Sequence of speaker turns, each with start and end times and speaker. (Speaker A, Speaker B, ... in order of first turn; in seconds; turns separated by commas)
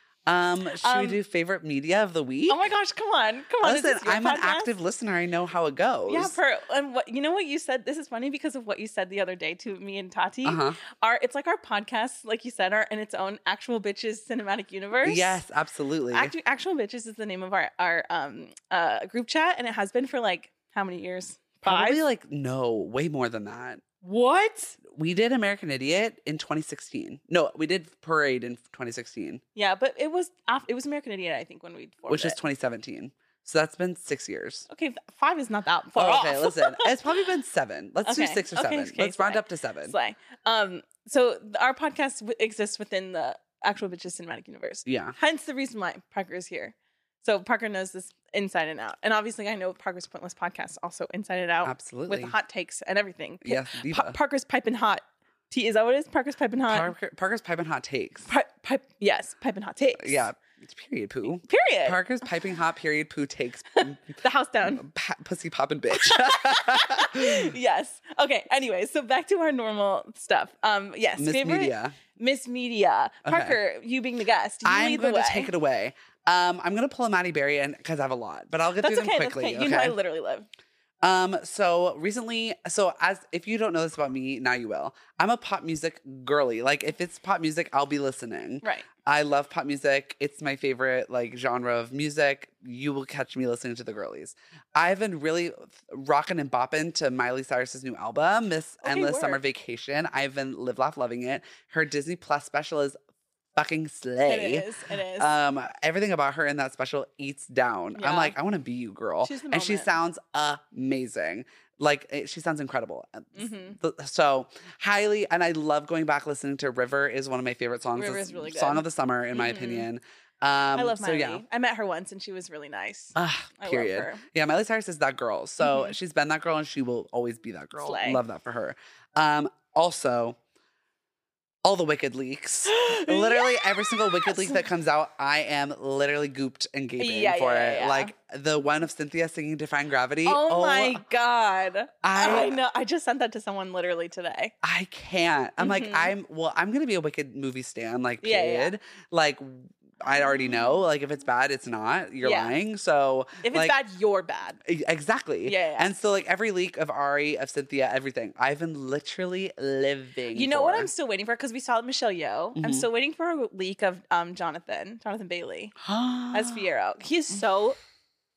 Speaker A: 0.3-2.7, Speaker B: 0.8-1.2, Speaker B: 2.5-4.7, Speaker A: 3.6-6.3, Speaker B: 6.1-15.4, Speaker A: 10.4-10.8, Speaker A: 15.1-16.3, Speaker B: 16.1-22.0, Speaker A: 21.6-23.9, Speaker B: 24.0-24.8, Speaker A: 24.8-29.4, Speaker B: 29.6-32.4, Speaker A: 32.1-34.7, Speaker B: 34.7-36.9, Speaker A: 36.0-39.9, Speaker B: 38.0-56.9, Speaker A: 44.9-45.2, Speaker A: 51.6-52.4, Speaker A: 53.4-54.2, Speaker A: 56.7-58.3, Speaker B: 58.3-60.3, Speaker A: 60.0-67.5, Speaker B: 61.4-62.0, Speaker B: 63.8-64.8, Speaker B: 66.0-75.5, Speaker A: 71.2-72.0, Speaker A: 73.3-73.6, Speaker A: 74.6-80.0, Speaker B: 78.8-80.5, Speaker A: 81.0-103.0, Speaker B: 88.6-88.9, Speaker B: 98.8-99.4, Speaker A: 103.5-104.7, Speaker B: 104.2-105.3, Speaker A: 105.2-121.4, Speaker B: 108.0-108.3, Speaker B: 109.2-109.9, Speaker B: 113.3-113.8, Speaker B: 118.0-119.9, Speaker B: 120.8-124.2, Speaker A: 123.2-130.4, Speaker B: 125.6-125.9, Speaker B: 127.8-128.2, Speaker A: 131.6-141.0, Speaker B: 132.7-134.7, Speaker B: 137.0-138.1, Speaker B: 140.2-144.5, Speaker A: 142.0-142.6, Speaker A: 144.6-153.8, Speaker B: 145.6-146.1, Speaker B: 148.2-148.7, Speaker B: 150.1-150.5, Speaker B: 152.2-152.5, Speaker B: 153.4-154.6, Speaker A: 154.7-160.9, Speaker B: 155.4-155.9, Speaker B: 160.3-165.8, Speaker A: 162.6-162.9, Speaker A: 165.8-166.6, Speaker B: 166.3-167.8